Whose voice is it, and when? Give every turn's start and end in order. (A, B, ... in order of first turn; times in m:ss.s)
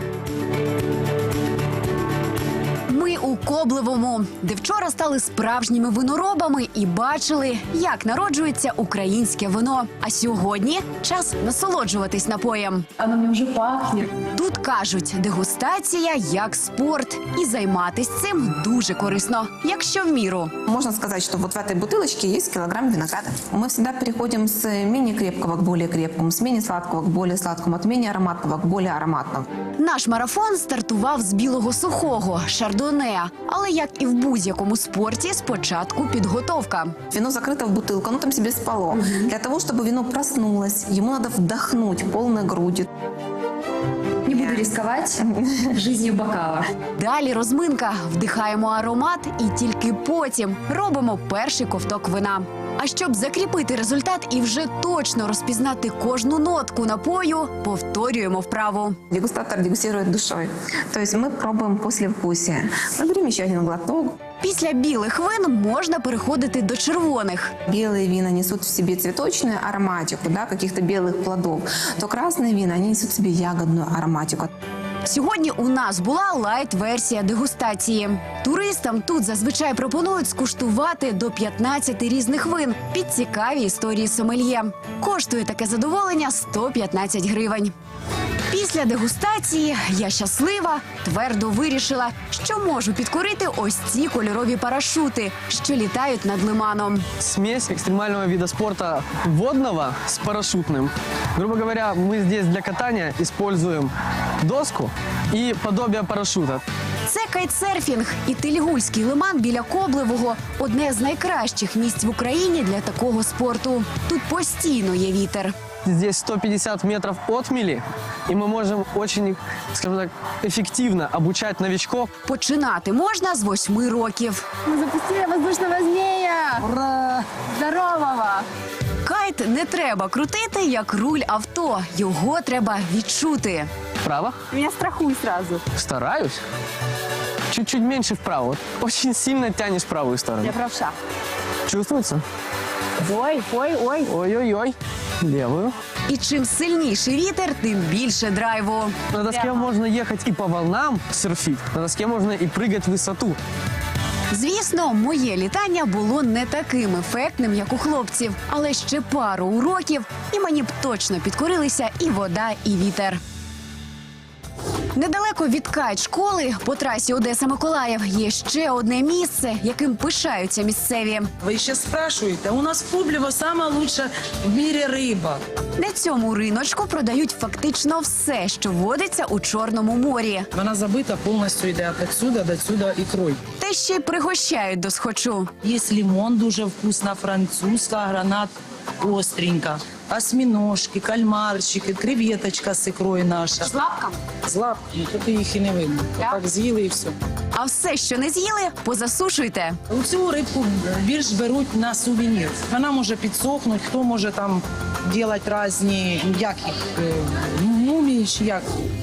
0:02.9-0:13.2 A
0:13.1-0:14.1 B
0:14.1-0:20.5 A
0:20.6-0:29.4 C
0:29.8-0:37.0 A
0:37.1-0:42.9 C
0:44.2-0:45.2 B
0:45.2-0:45.7 C
0:45.8-0:46.7 B
0:46.9-0:59.0 A
0:59.1-1:04.2 C
1:04.4-1:07.5 A
1:07.7-1:14.5 C
1:15.0-1:27.7 A
1:28.5-1:37.1 A
1:37.2-1:46.6 D
1:47.0-1:55.5 A
1:55.8-2:02.1 D
2:02.2-2:06.3 A
2:04.7-2:08.4 B
2:06.6-2:07.2 D
2:09.0-2:13.7 A
2:14.0-2:14.4 D
2:14.5-2:15.6 B
2:14.9-2:15.4 A
2:15.7-2:16.4 D
2:17.5-2:20.6 D
2:20.4-2:20.9 B
2:21.7-2:22.2 D
2:23.0-2:24.1 B
2:23.4-2:23.8 A
2:24.0-2:25.7 D
2:26.1-2:29.5 A
2:29.1-2:33.4 D
2:34.3-2:43.2 A
2:44.9-2:51.3 A
2:51.4-2:55.4 E
2:55.8-3:00.5 A
3:00.5-3:03.4 E
3:03.6-3:05.5 A
3:05.6-3:13.7 E
3:13.7-3:14.2 A
3:14.4-3:17.2 E
3:17.5-3:19.8 A
3:19.9-3:28.7 E